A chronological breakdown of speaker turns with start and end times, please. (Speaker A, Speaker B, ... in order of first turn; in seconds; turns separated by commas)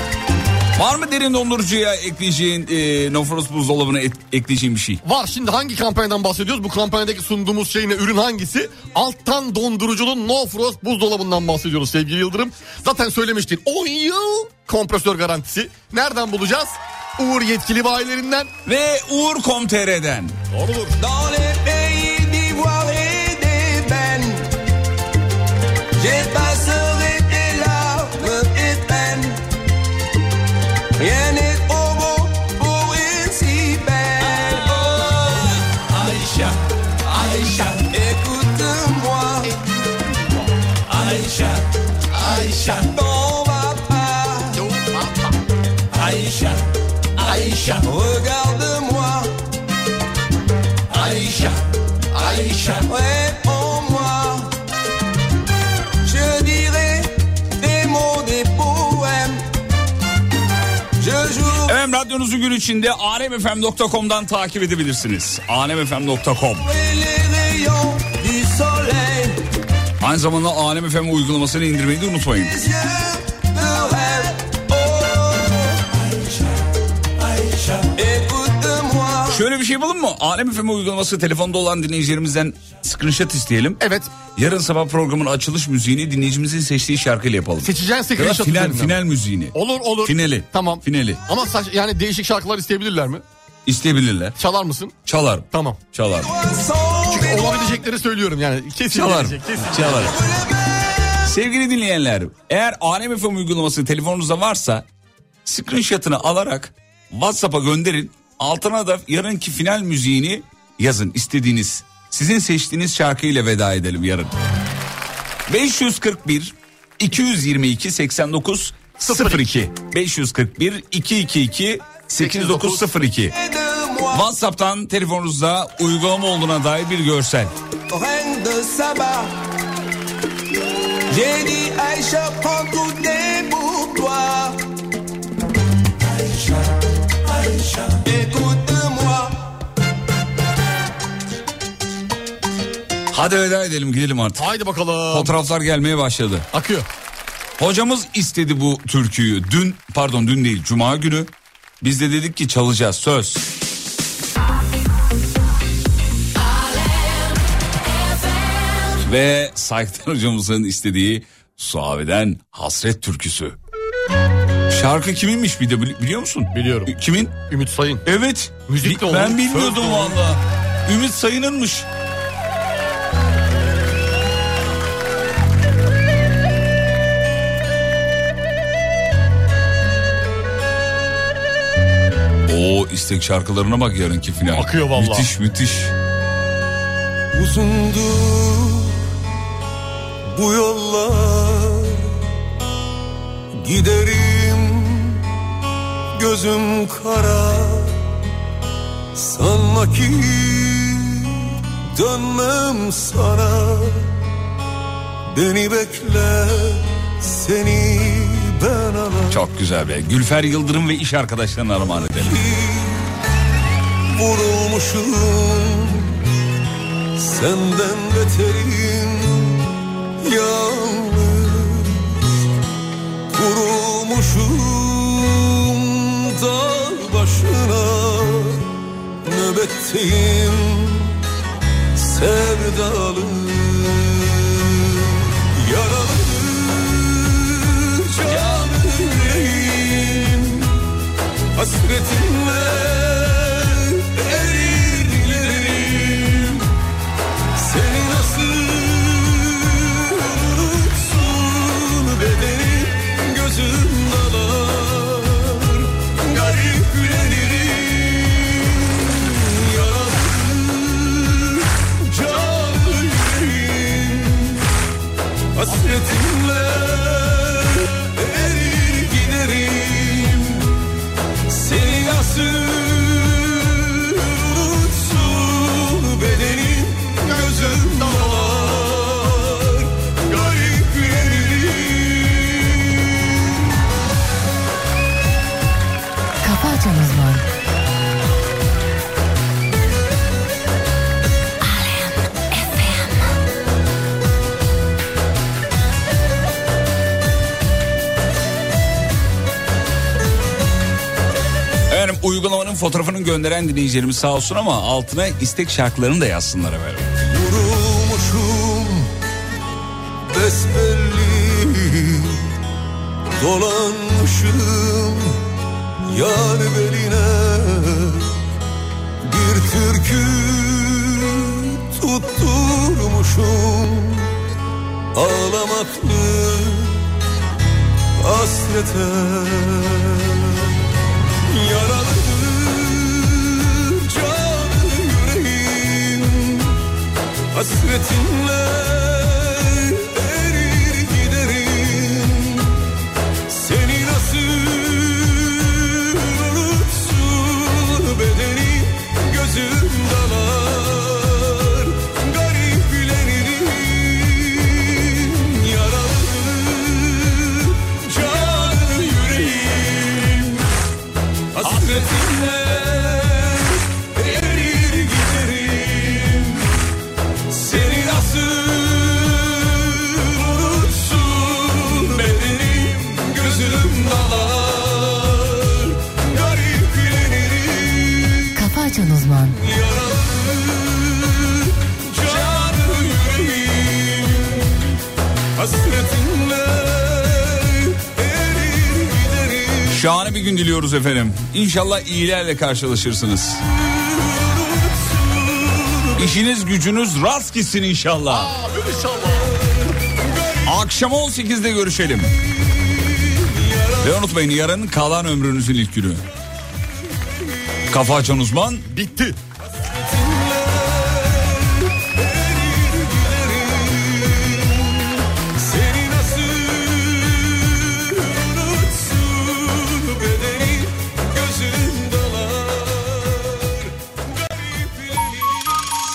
Speaker A: 0.8-5.0, Speaker B: 5.0-18.5, Speaker A: 18.6-20.4, Speaker B: 20.5-21.0, Speaker C: 21.0-24.5, Speaker C: 26.0-29.4, Speaker C: 31.0-36.5, Speaker C: 37.0-39.5, Speaker C: 40.9-44.7, Speaker B: 44.7-45.2, Speaker C: 45.9-46.6, Speaker C: 47.2-49.3, Speaker C: 50.9-51.6, Speaker C: 52.1-54.5, Speaker C: 56.0-59.4, Speaker C: 61.0-61.7, Speaker A: 61.6-66.7, Speaker C: 66.6-69.4, Speaker A: 70.0-72.6, Speaker C: 72.5-76.0, Speaker C: 77.4-79.4, Speaker A: 79.3-91.2, Speaker B: 83.8-84.1, Speaker B: 87.6-89.0, Speaker B: 89.5-93.2, Speaker A: 93.7-94.3, Speaker B: 94.3-94.9, Speaker A: 95.0-96.3, Speaker B: 95.5-95.8, Speaker C: 96.2-97.8, Speaker B: 97.1-100.2, Speaker A: 98.9-100.2, Speaker C: 100.1-101.2, Speaker A: 101.2-104.8, Speaker A: 105.4-114.3, Speaker A: 115.5-123.3, Speaker B: 119.0-119.5, Speaker B: 122.2-122.7, Speaker C: 123.3-124.3, Speaker A: 124.1-127.5, Speaker C: 127.9-129.3, Speaker C: 131.1-134.6, Speaker C: 137.4-139.4, Speaker A: 143.1-144.5, Speaker B: 144.4-145.3, Speaker A: 145.1-146.5, Speaker B: 146.5-146.8, Speaker A: 147.6-153.4, Speaker A: 159.0-163.6, Speaker A: 164.7-167.3, Speaker B: 166.5-166.9, Speaker B: 167.5-168.0, Speaker A: 168.0-171.9, Speaker B: 168.7-170.2, Speaker A: 182.4-185.9, Speaker B: 184.5-185.3, Speaker D: 187.3-189.0, Speaker D: 190.3-192.1, Speaker D: 193.6-195.2, Speaker D: 196.1-197.9, Speaker D: 199.1-201.4, Speaker D: 201.9-204.1, Speaker D: 205.3-209.4, Speaker A: 209.3-212.4, Speaker D: 212.1-213.1, Speaker D: 214.1-216.2, Speaker D: 217.2-219.7, Speaker D: 220.2-222.3, Speaker D: 223.3-228.7, Speaker D: 229.2-231.2, Speaker D: 231.9-240.8, Speaker D: 241.5-246.7, Speaker D: 247.5-264.6, Speaker D: 265.5-270.8, Speaker D: 271.5-283.2, Speaker E: 286.4-287.4, Speaker E: 291.6-293.2, Speaker A: 301.9-307.1, Speaker D: 307.3-309.1, Speaker D: 310.3-312.4, Speaker D: 313.4-315.4, Speaker D: 316.1-318.3, Speaker D: 319.2-324.3, Speaker D: 325.1-327.1, Speaker D: 328.2-330.7, Speaker D: 331.5-336.8, Speaker D: 337.5-342.8, Speaker D: 343.5-360.7, Speaker D: 361.5-366.7, Speaker A: 361.6-361.9, Speaker D: 367.5-378.8, Speaker E: 378.6-379.6, Speaker D: 379.4-384.9, Speaker D: 385.5-390.0, Speaker A: 389.9-393.6, Speaker D: 393.7-396.3, Speaker A: 396.2-398.5, Speaker B: 398.3-399.5, Speaker D: 399.4-400.8, Speaker A: 400.6-402.3, Speaker D: 402.6-404.3, Speaker A: 404.0-406.2, Speaker D: 407.1-408.0, Speaker A: 407.9-408.9, Speaker B: 408.9-409.4, Speaker D: 409.8-425.9